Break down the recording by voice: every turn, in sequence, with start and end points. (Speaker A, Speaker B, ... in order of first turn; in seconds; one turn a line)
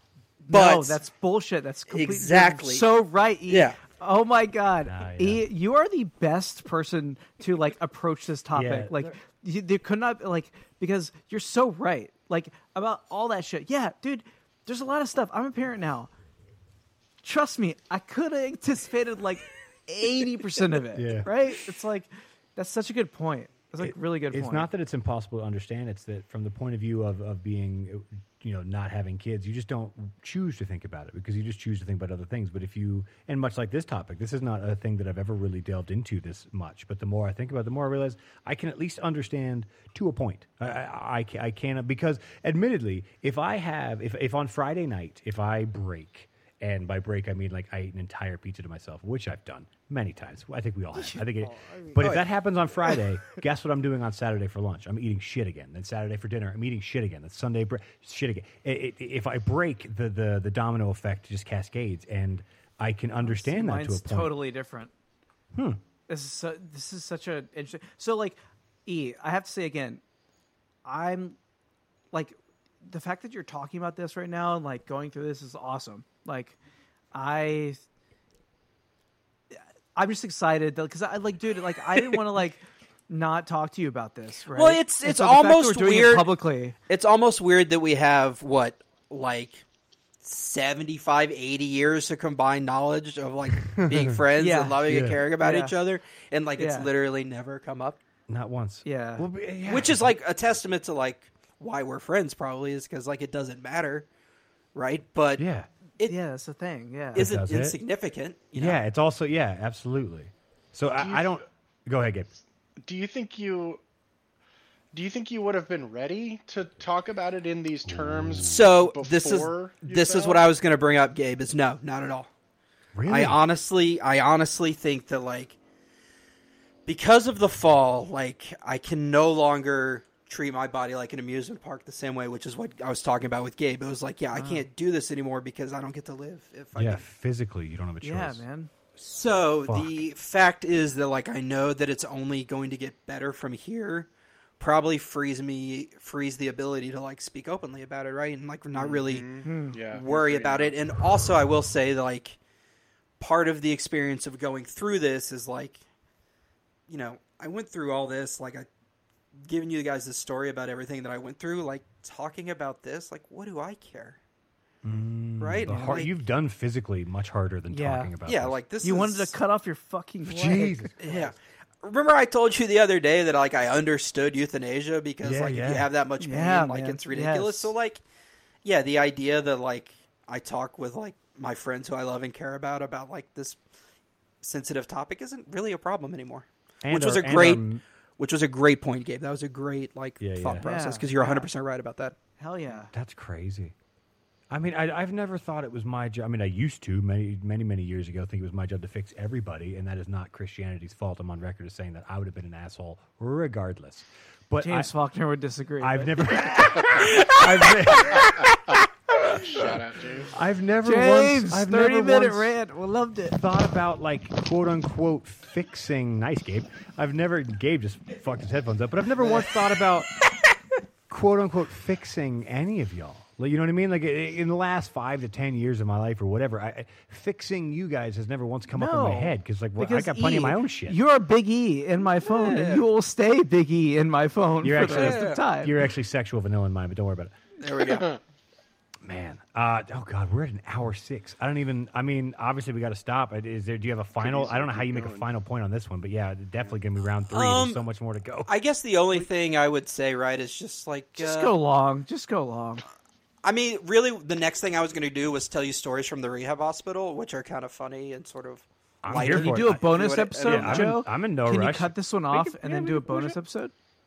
Speaker A: 0.4-16.1
Speaker B: 0.5-1.0
Speaker B: 1.9-2.9
Speaker B: 3.5-3.8
Speaker C: 4.8-5.4
Speaker C: 8.5-9.1
Speaker A: 17.2-24.7
Speaker C: 20.9-21.3
Speaker C: 23.8-64.3
Speaker A: 50.9-52.0
Speaker B: 52.0-52.2
Speaker A: 63.2-64.9
Speaker C: 65.5-65.8
Speaker A: 66.1-70.0
Speaker A: 70.8-71.4
Speaker A: 72.1-76.6
Speaker A: 77.1-77.8
Speaker A: 79.9-86.8
Speaker B: 84.5-86.3
Speaker B: 86.9-89.6
Speaker B: 90.2-98.0
Speaker C: 93.6-94.2
Speaker A: 94.4-95.7
Speaker C: 94.8-95.2
Speaker A: 96.6-96.9
Speaker C: 98.3-100.1
Speaker A: 98.8-99.3
Speaker B: 99.6-104.1
Speaker B: 104.7-105.4
Speaker C: 105.4-105.7
Speaker A: 106.0-107.3
Speaker B: 107.1-108.8
Speaker C: 107.2-107.8
Speaker C: 108.5-112.3
Speaker D: 111.0-111.4
Speaker D: 112.8-113.8
Speaker D: 114.9-120.5
Speaker C: 117.8-118.7
Speaker B: 118.5-122.3
Speaker C: 122.9-123.4
Speaker B: 123.1-125.6
Speaker B: 126.8-137.0
Speaker A: 134.3-134.7
Speaker C: 136.8-138.4
Speaker A: 138.0-138.7
Speaker B: 138.9-152.4
Speaker C: 139.7-139.9
Speaker D: 148.7-150.8
Speaker A: 149.4-149.8
Speaker B: 153.2-155.8
Speaker B: 156.9-158.7
Speaker B: 159.3-164.2
Speaker C: 164.8-168.6
Speaker B: 165.4-166.1
Speaker A: 165.7-166.0
Speaker A: 167.7-168.1
Speaker B: 168.2-169.3
Speaker A: 168.8-171.3
Speaker C: 170.2-171.0
Speaker B: 171.0-178.0
Speaker C: 175.2-175.9
Speaker A: 176.2-177.7
Speaker B: 178.6-183.6
Speaker B: 184.4-187.6
Speaker C: 186.8-187.8
Speaker B: 188.2-192.2
Speaker C: 190.2-190.7
Speaker A: 190.6-191.5
Speaker A: 192.4-192.9
Speaker C: 192.9-193.7
Speaker C: 194.5-204.9
Speaker A: 204.6-206.8
Speaker C: 205.8-208.6
Speaker D: 208.2-208.4
Speaker C: 209.1-209.7
Speaker D: 209.2-210.3
Speaker C: 210.3-212.5
Speaker A: 210.8-213.4
Speaker C: 213.3-220.1
Speaker C: 221.1-231.0
Speaker A: 228.7-235.7
Speaker B: 232.2-232.9
Speaker C: 234.6-237.3
Speaker B: 234.9-235.4
Speaker B: 237.6-238.1
Speaker D: 237.9-238.2
Speaker C: 239.0-248.5
Speaker D: 244.2-245.3
Speaker B: 247.3-247.8
Speaker B: 248.4-251.5
Speaker A: 251.2-252.8
Speaker B: 253.4-260.9
Speaker C: 259.0-259.8
Speaker A: 259.2-263.7
Speaker C: 260.4-263.4